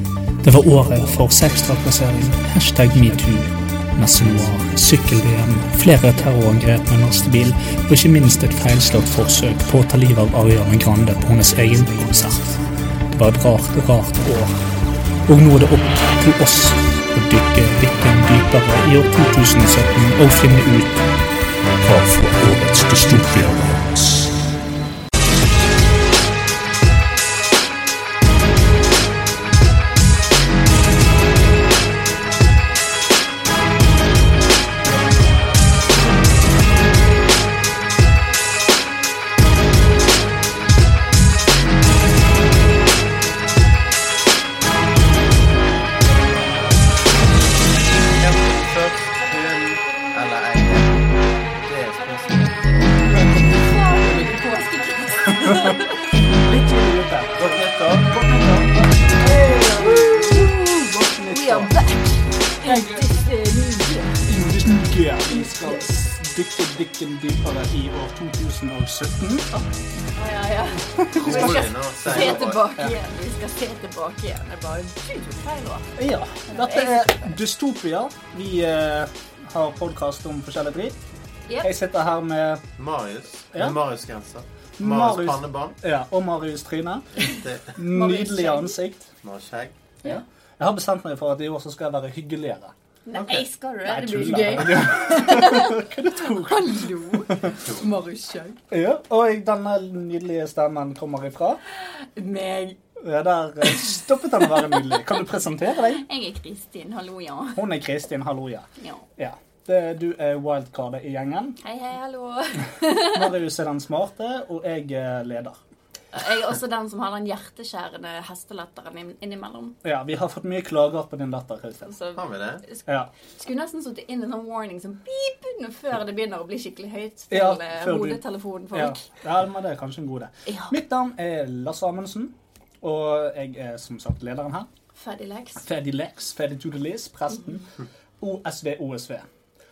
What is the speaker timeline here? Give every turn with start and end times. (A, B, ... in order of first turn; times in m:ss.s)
0:00.4-0:12.5 A
0:13.1-0:14.5 A
0:15.2-0:21.1 A
0:21.8-0:24.4 A
0:47.9-0:51.1 B
0:51.6-0:52.9 B
0:53.4-0:56.0 C
0:55.4-0:55.8 A
0:56.4-1:01.8 A
0:57.4-0:58.1 B
0:59.2-1:04.2 C
1:02.6-1:03.0 A
1:04.2-1:09.5 A
1:05.3-1:05.8 C
1:09.5-1:15.9 C
1:10.9-1:12.9 A
1:11.1-1:12.7 B
1:16.0-1:21.0 A
1:16.4-1:17.4 C
1:21.6-1:22.6 A
1:22.8-1:25.8 B
1:24.8-1:27.1 A
1:27.1-1:27.8 B
1:27.7-1:29.1 A
1:27.9-1:28.8 C
1:29.2-1:29.7 B
1:30.0-1:32.7 A
1:33.0-1:38.6 C
1:33.3-1:37.5 A
1:38.7-1:41.6 A
1:41.7-1:42.8 C
1:43.0-1:46.0 A
1:45.8-1:47.6 C
1:47.6-1:51.6 A
1:48.8-1:49.0 C
1:51.6-1:53.3 C
1:53.1-1:55.6 A
1:56.1-1:59.8 C
1:59.8-2:01.9 A
2:01.8-2:09.0 C
2:02.1-2:02.6 B
2:07.3-2:08.2 A
2:08.7-2:14.7 A
2:10.5-2:10.7 C
2:14.9-2:15.7 C
2:15.6-2:19.3 A